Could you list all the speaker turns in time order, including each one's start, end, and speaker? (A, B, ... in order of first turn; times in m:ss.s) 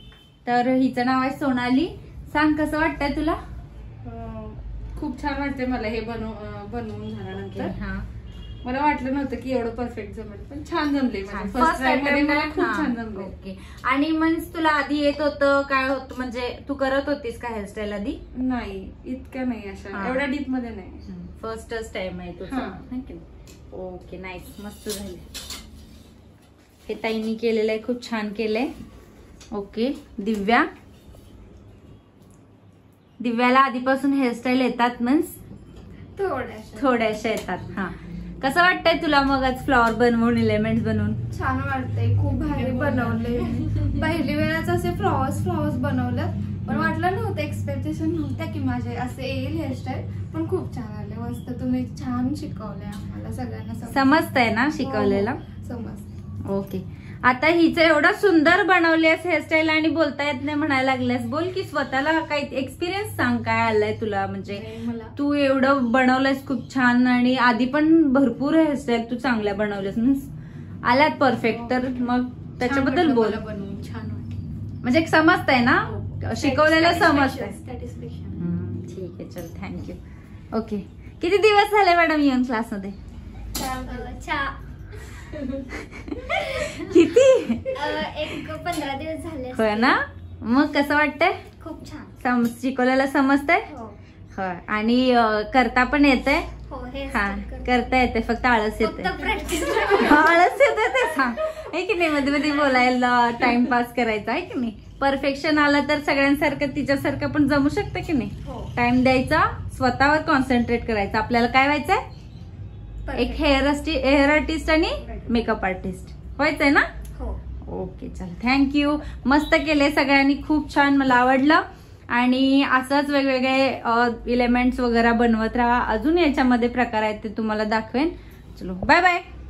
0:00.4-0:03.4 A
0:04.0-0:07.7 B
0:07.5-0:08.0 A
0:08.6-0:13.3 B
0:11.3-0:18.2 A
0:11.6-0:12.4 C
0:18.3-0:19.7 C
0:19.8-0:20.8 B
0:19.9-0:20.3 A
0:21.1-0:25.3 A
0:22.5-0:22.8 C
0:26.8-0:28.7 A
0:29.5-0:30.7 A
0:33.2-0:35.4 A
0:36.1-0:36.9 C
0:36.8-0:41.2 A
0:41.3-0:54.2 C
0:42.6-0:43.3 B
0:53.9-0:55.4 A
0:54.8-0:56.1 C
0:56.4-1:10.3 A
1:04.6-1:05.1 C
1:10.8-1:13.4 A
1:11.5-1:12.0 C
1:12.6-1:14.2 C
1:13.1-1:13.8 B
1:14.8-1:17.6 A
1:16.4-1:18.3 B
1:16.8-1:17.2 C
1:18.4-1:20.0 A
1:20.5-1:23.0 A
1:23.6-1:24.1 C
1:23.8-1:24.6 D
1:25.8-1:28.0 A
1:26.3-1:27.0 D
1:27.7-1:30.0 D
1:29.5-1:31.4 A
1:31.6-1:32.1 D
1:32.2-1:33.7 A
1:33.7-1:34.0 D
1:34.3-1:36.5 A
1:36.7-1:37.9 D
1:37.1-1:52.0 A
1:38.8-1:41.3 D
1:48.4-1:48.7 D
1:53.0-1:53.4 D
1:53.1-1:56.9 A
1:57.1-1:57.4 D
1:57.6-2:09.2 A